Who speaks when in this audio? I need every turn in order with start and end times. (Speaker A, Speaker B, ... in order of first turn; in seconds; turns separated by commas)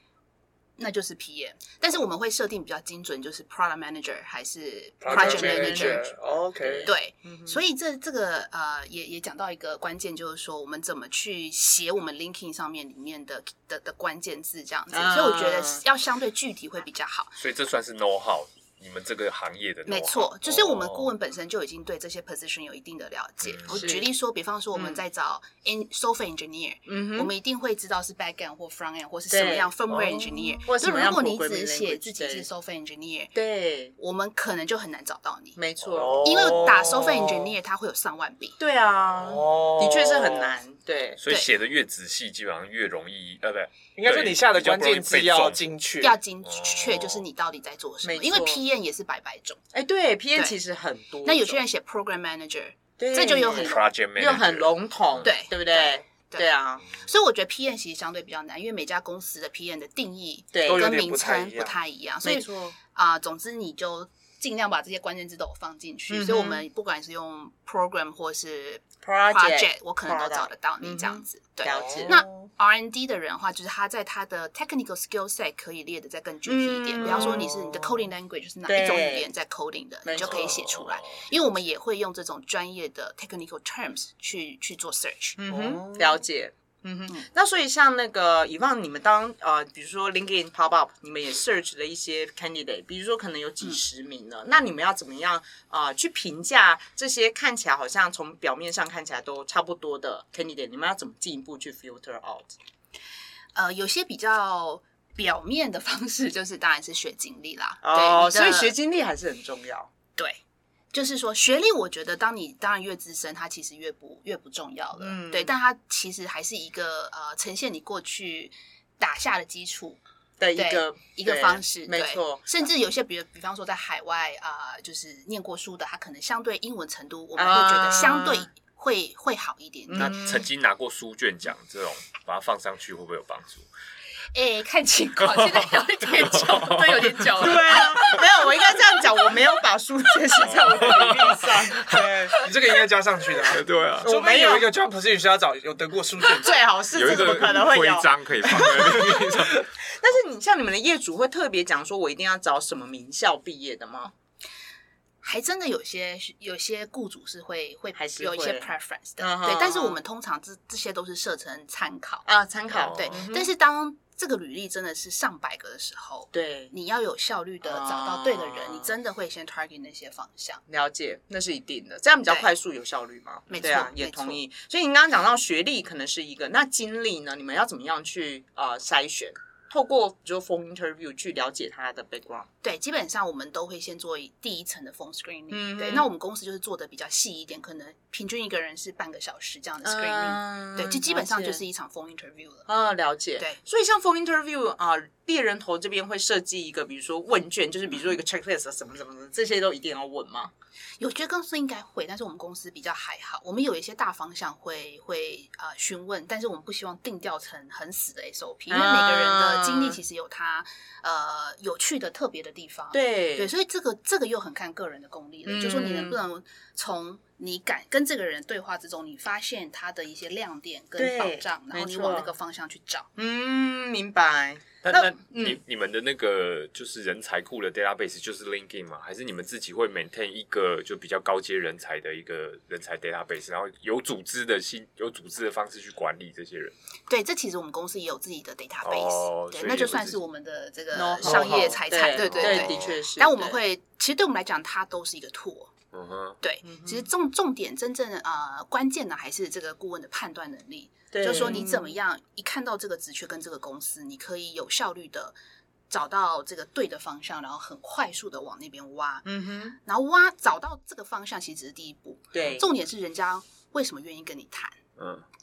Speaker A: 0.8-6.1, Speaker B: 5.0-6.9, Speaker C: 5.1-6.0, Speaker C: 6.6-7.6, Speaker A: 6.8-17.4, Speaker C: 14.9-15.8, Speaker D: 17.4-21.1, Speaker A: 19.9-33.3, Speaker D: 23.4-23.8, Speaker C: 23.7-24.1, Speaker C: 24.7-25.0, Speaker C: 26.9-27.3, Speaker C: 29.3-29.7, Speaker C: 30.6-32.5, Speaker C: 33.3-33.9, Speaker A: 34.0-35.6, Speaker C: 35.6-36.8, Speaker B: 35.9-37.4, Speaker A: 36.1-38.6, Speaker C: 38.6-41.2, Speaker B: 39.2-40.5, Speaker D: 41.2-45.6, Speaker B: 44.0-46.2, Speaker A: 46.0-49.6, Speaker D: 46.4-47.2, Speaker C: 48.0-48.6, Speaker C: 49.7-51.6, Speaker A: 51.2-53.9, Speaker C: 53.0-56.9, Speaker D: 53.5-55.3, Speaker A: 55.2-85.9, Speaker C: 60.5-60.9, Speaker B: 60.6-61.8, Speaker C: 62.2-62.7, Speaker C: 66.1-66.6, Speaker C: 69.0-72.5, Speaker B: 71.7-72.1, Speaker C: 76.5-78.0, Speaker C: 78.7-79.3, Speaker C: 80.0-80.7, Speaker D: 80.3-81.2, Speaker C: 85.4-102.6, Speaker B: 85.5-85.8, Speaker A: 103.5-108.7, Speaker C: 107.8-109.9, Speaker A: 110.9-120.0, Speaker C: 115.0-115.5, Speaker C: 120.4-122.4, Speaker A: 120.5-130.2, Speaker C: 127.3-128.5, Speaker C: 129.9-130.4, Speaker D: 130.0-133.7, Speaker A: 134.3-139.1, Speaker D: 135.2-137.3, Speaker C: 137.4-142.4, Speaker D: 140.4-142.0, Speaker B: 141.9-146.7, Speaker D: 143.5-144.1, Speaker C: 144.0-144.7, Speaker C: 146.3-154.1, Speaker D: 146.9-149.7, Speaker A: 155.2-162.3, Speaker C: 157.9-160.0, Speaker C: 162.2-163.5, Speaker D: 162.7-163.2, Speaker A: 162.9-170.6, Speaker C: 166.3-166.7, Speaker C: 167.6-168.9, Speaker C: 170.7-182.5, Speaker A: 173.5-174.4, Speaker A: 182.6-192.7, Speaker C: 185.5-186.1, Speaker C: 189.8-191.6, Speaker C: 192.7-200.5, Speaker A: 201.0-223.1, Speaker C: 208.7-210.0, Speaker C: 212.9-213.5, Speaker C: 215.4-216.2, Speaker C: 221.0-222.3, Speaker C: 223.2-225.6, Speaker D: 224.8-236.7, Speaker A: 237.1-245.7, Speaker D: 238.8-240.2, Speaker C: 240.9-243.6, Speaker D: 241.2-243.0, Speaker D: 245.9-246.4, Speaker A: 246.4-255.3, Speaker C: 246.6-247.0, Speaker C: 251.1-251.9, Speaker A: 255.9-259.2, Speaker C: 259.2-259.8, Speaker A: 259.8-264.8, Speaker C: 262.3-262.6, Speaker D: 265.0-265.2